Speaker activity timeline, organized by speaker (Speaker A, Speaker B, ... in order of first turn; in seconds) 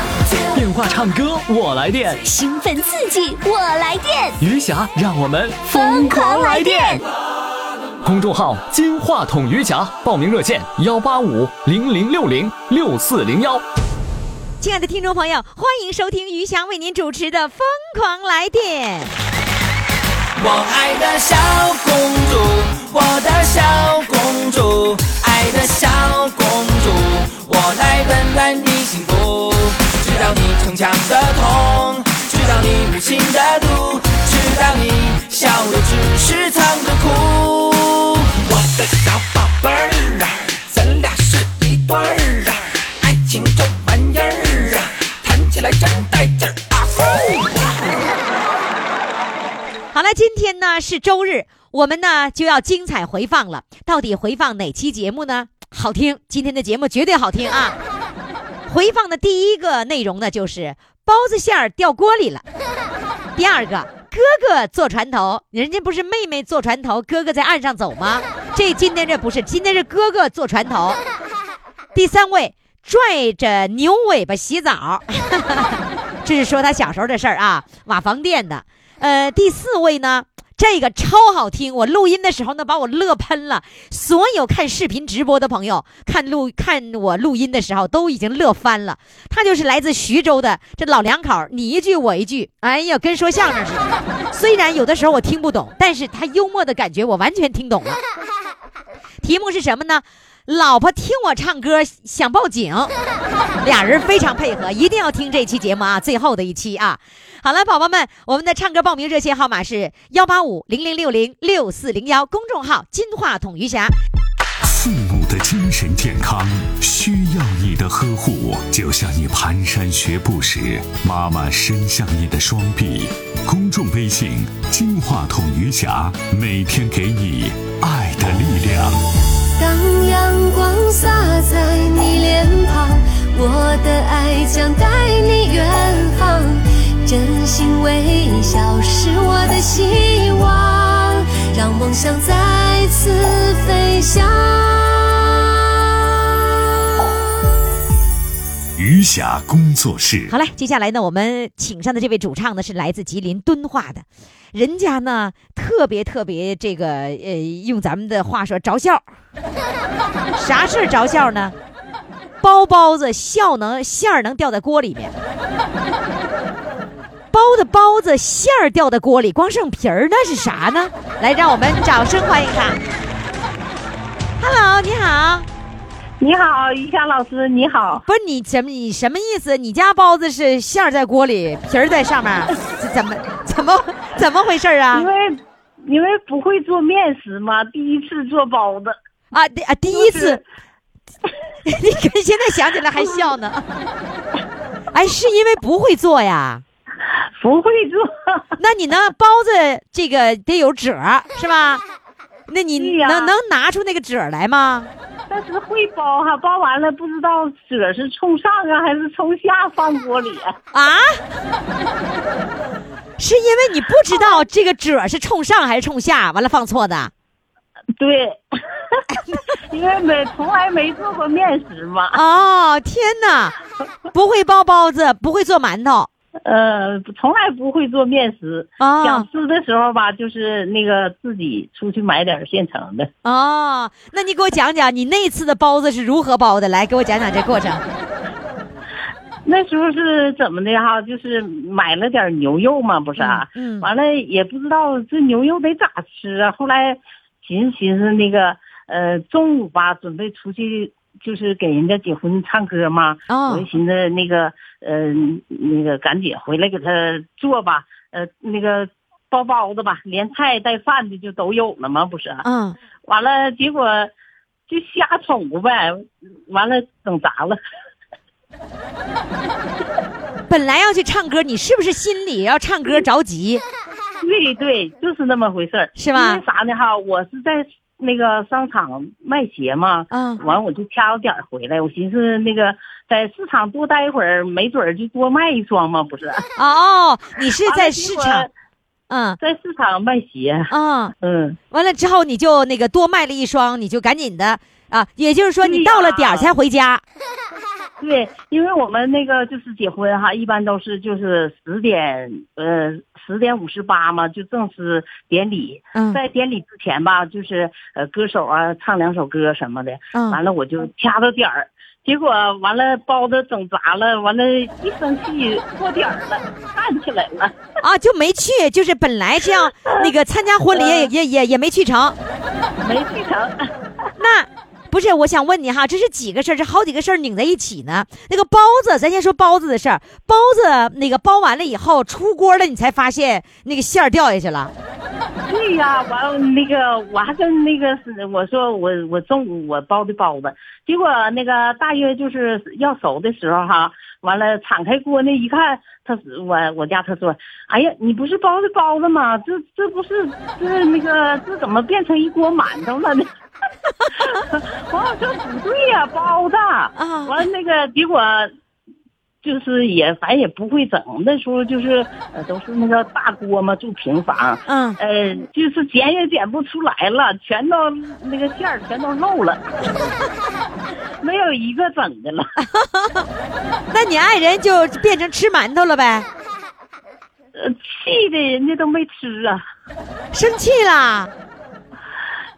Speaker A: 0.5-2.2, 4.4-6.6, 8.0-13.6
Speaker B: 2.2-4.4, 5.6-7.0
Speaker C: 14.6-19.1, 49.9-57.8, 58.7-62.4, 63.4-71.0, 71.9-98.0, 99.2-102.9, 103.6-113.9, 150.3-159.0, 160.3-161.5, 162.4-165.1, 167.3-172.8, 174.4-175.5, 178.1-185.1, 189.3-190.4, 191.7-193.6, 194.9-196.6, 198.6-201.8, 202.5-204.9, 210.7-211.2, 213.2-217.1, 222.1-223.5, 224.1-226.1, 228.8-229.3, 233.2-237.8, 243.2-243.9, 253.3-253.7, 262.4-262.8, 270.5-273.6, 276.0-276.4, 280.1-280.4, 286.6-288.5, 289.1-289.4, 290.7-291.1, 291.7-297.0, 310.1-310.4, 317.8-322.1, 324.2-334.7, 356.9-357.3, 364.7-365.0, 372.6-373.3, 373.9-376.3, 380.3-381.3
Speaker D: 20.4-48.0
Speaker E: 114.6-129.0, 148.7-150.3
Speaker F: 129.6-145.3
Speaker G: 176.2-178.0, 184.9-189.0, 189.9-190.4, 197.4-198.5, 202.8-203.3, 205.3-210.6, 214.1-214.4, 218.0-219.0, 219.7-222.2, 226.4-233.1, 239.4-262.4, 263.1-264.1, 264.7-267.6, 274.2-286.5, 287.6-288.5, 289.4-291.6, 295.6-296.5, 298.0-317.6, 320.7-321.1, 322.8-323.5, 335.5-353.3, 354.1-358.5, 359.4-369.7, 371.2-372.4, 377.5-379.6